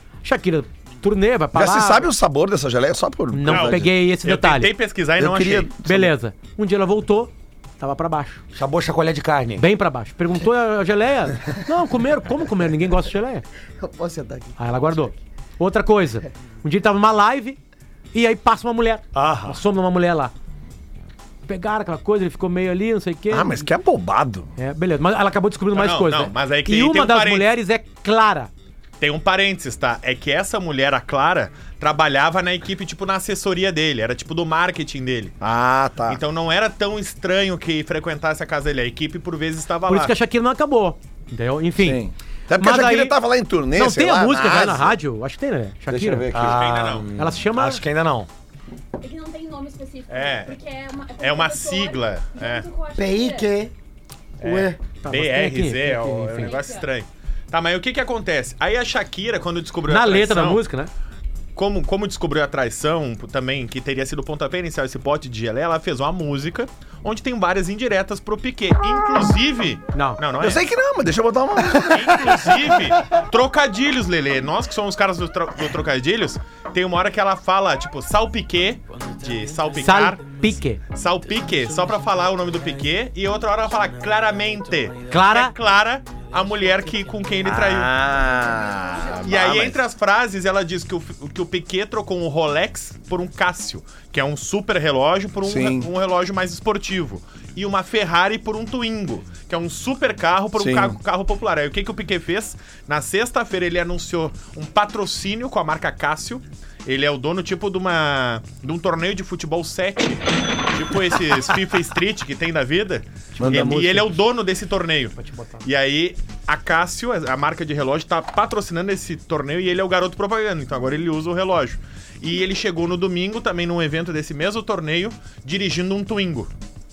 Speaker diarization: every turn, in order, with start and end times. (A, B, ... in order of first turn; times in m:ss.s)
0:00.2-0:02.0 A
0:01.5-0:03.9 B
0:03.3-0:04.7 A
0:03.5-0:05.7 C
0:05.2-0:06.1 B
0:05.8-0:08.4 A
0:08.5-0:09.6 D
0:09.6-0:13.4 A
0:13.8-0:14.5 E
0:14.6-0:17.6 A
0:18.1-0:20.3 A
0:19.1-0:19.6 D
0:21.5-0:23.7 A
0:23.3-0:24.5 B
0:24.6-0:28.5 A
0:25.7-0:27.5 C
0:29.0-0:35.3 C
0:35.4-0:36.2 B
0:36.1-0:40.1 C
0:39.9-0:42.0 A
0:41.8-0:45.0 B
0:42.6-0:43.2 A
0:43.7-0:46.3 A
0:45.9-0:46.7 B
0:46.3-0:48.3 D
0:46.4-0:47.1 C
0:47.2-0:47.8 A
0:49.0-0:53.6 F
0:50.1-0:50.6 C
0:51.2-0:52.7 C
0:53.0-0:53.7 E
0:54.4-0:54.8 E
0:54.4-1:00.6 C
0:55.0-0:56.6 A
0:56.4-0:56.9 F
0:59.9-1:00.9 A
1:01.6-1:10.6 C
1:09.9-1:10.2 A
1:10.4-1:12.5 B
1:11.8-1:20.4 C
1:19.8-1:20.8 A
1:20.9-1:27.9 C
1:25.1-1:25.5 A
1:27.4-1:29.8 B
1:29.2-2:06.5 C
1:35.4-1:35.9 B
1:40.6-1:41.0 B
1:53.3-1:54.1 A
1:53.4-1:53.8 B
1:55.2-1:55.6 A